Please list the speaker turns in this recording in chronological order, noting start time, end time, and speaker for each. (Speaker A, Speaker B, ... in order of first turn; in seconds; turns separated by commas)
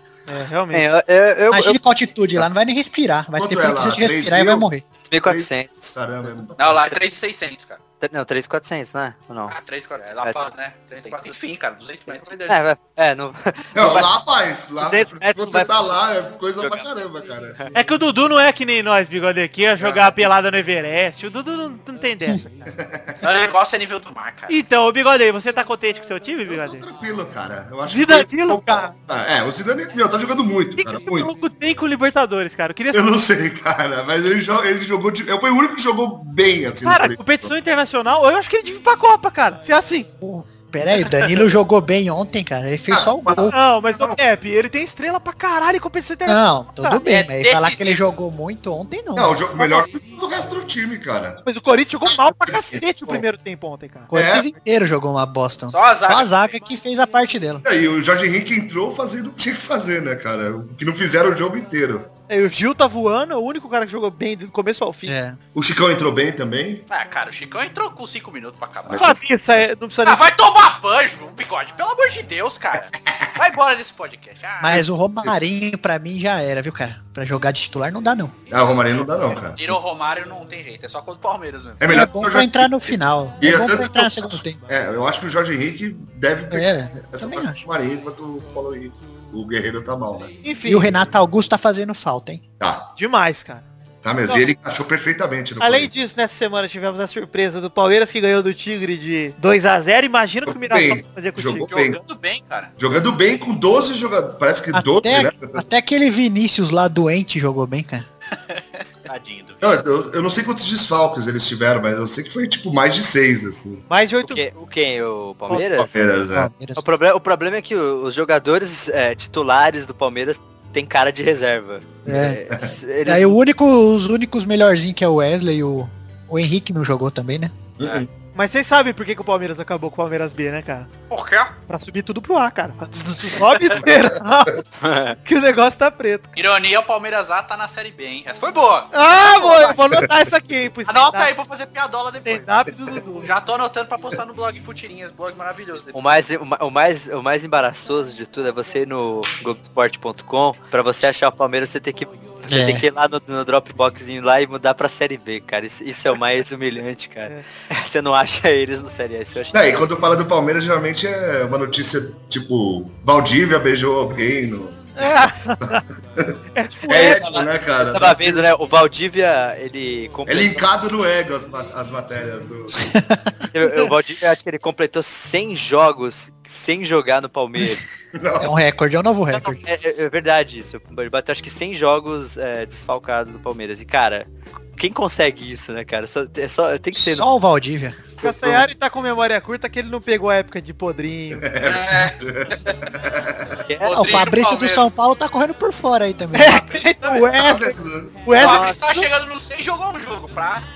Speaker A: 0.3-0.9, Speaker B: 0.7-1.8, Speaker C: 1.5-4.8, Speaker D: 3.4-4.7, Speaker B: 5.0-6.0, Speaker D: 5.2-6.7, Speaker E: 6.6-7.8, Speaker B: 8.0-9.6, Speaker E: 9.5-12.6, Speaker B: 10.1-10.5, Speaker B: 11.1-11.3, Speaker B: 12.1-14.1, Speaker D: 13.7-17.6, Speaker B: 14.8-16.0, Speaker B: 16.6-16.9, Speaker A: 17.7-22.7, Speaker D: 19.8-20.2, Speaker D: 22.8-23.2, Speaker E: 23.2-24.6, Speaker A: 24.5-26.8, Speaker D: 26.5-31.3, Speaker A: 27.9-28.9, Speaker A: 30.8-33.2, Speaker D: 32.9-37.5, Speaker A: 36.8-40.1, Speaker C: 40.2-43.5, Speaker D: 42.9-44.2, Speaker A: 43.5-47.0, Speaker C: 46.3-49.8, Speaker E: 47.0-48.0, Speaker D: 49.1-51.4, Speaker A: 51.4-54.1, Speaker D: 52.1-53.2, Speaker C: 54.1-57.6, Speaker D: 54.1-54.5, Speaker E: 55.7-56.5, Speaker D: 57.6-62.1, Speaker A: 62.3-65.1, Speaker C: 65.0-65.4, Speaker D: 65.5-66.8, Speaker E: 66.9-69.2, Speaker D: 68.9-69.2, Speaker A: 68.9-70.3, Speaker E: 70.0-74.8, Speaker C: 74.6-78.3, Speaker D: 78.5-79.8, Speaker E: 79.3-82.0, Speaker D: 81.8-90.3, Speaker C: 81.9-84.6, Speaker C: 86.5-87.6, Speaker A: 90.4-90.9, Speaker C: 90.7-92.4, Speaker D: 92.6-92.9, Speaker A: 93.0-93.7, Speaker D: 94.0-95.9, Speaker A: 95.6-101.7, Speaker D: 100.5-102.0, Speaker E: 101.7-102.7, Speaker D: 102.8-105.6, Speaker C: 104.7-108.0, Speaker E: 108.3-109.6, Speaker D: 109.6-113.8, Speaker A: 113.9-114.4, Speaker B: 114.2-116.0, Speaker C: 115.5-116.8, Speaker D: 115.5-116.5, Speaker B: 116.8-123.4, Speaker C: 122.1-122.4, Speaker D: 122.1-122.6, Speaker C: 123.0-127.5, Speaker D: 127.8-128.1, Speaker A: 128.3-130.9, Speaker E: 131.1-131.5, Speaker A: 131.7-134.6, Speaker B: 134.8-135.2, Speaker A: 135.2-136.3, Speaker E: 136.3-138.9, Speaker A: 138.9-141.3, Speaker E: 140.9-142.5, Speaker A: 142.2-143.3, Speaker E: 143.2-145.9, Speaker B: 145.9-160.0, Speaker C: 152.5-152.8, Speaker D: 159.5-168.5, Speaker A: 165.0-165.8, Speaker A: 166.5-167.4, Speaker B: 166.9-171.1, Speaker D: 170.3-172.8, Speaker C: 172.8-173.3, Speaker B: 173.5-177.8, Speaker D: 178.1-178.6, Speaker C: 178.4-179.6, Speaker B: 179.3-187.3, Speaker C: 186.9-188.1, Speaker A: 188.2-191.4, Speaker B: 188.3-188.6, Speaker D: 191.4-193.6, Speaker E: 191.6-192.8, Speaker B: 193.7-194.3, Speaker E: 193.8-194.9, Speaker C: 193.9-196.6, Speaker A: 196.3-199.1, Speaker E: 196.4-197.3, Speaker D: 197.3-198.3, Speaker B: 198.4-198.8, Speaker E: 198.4-200.7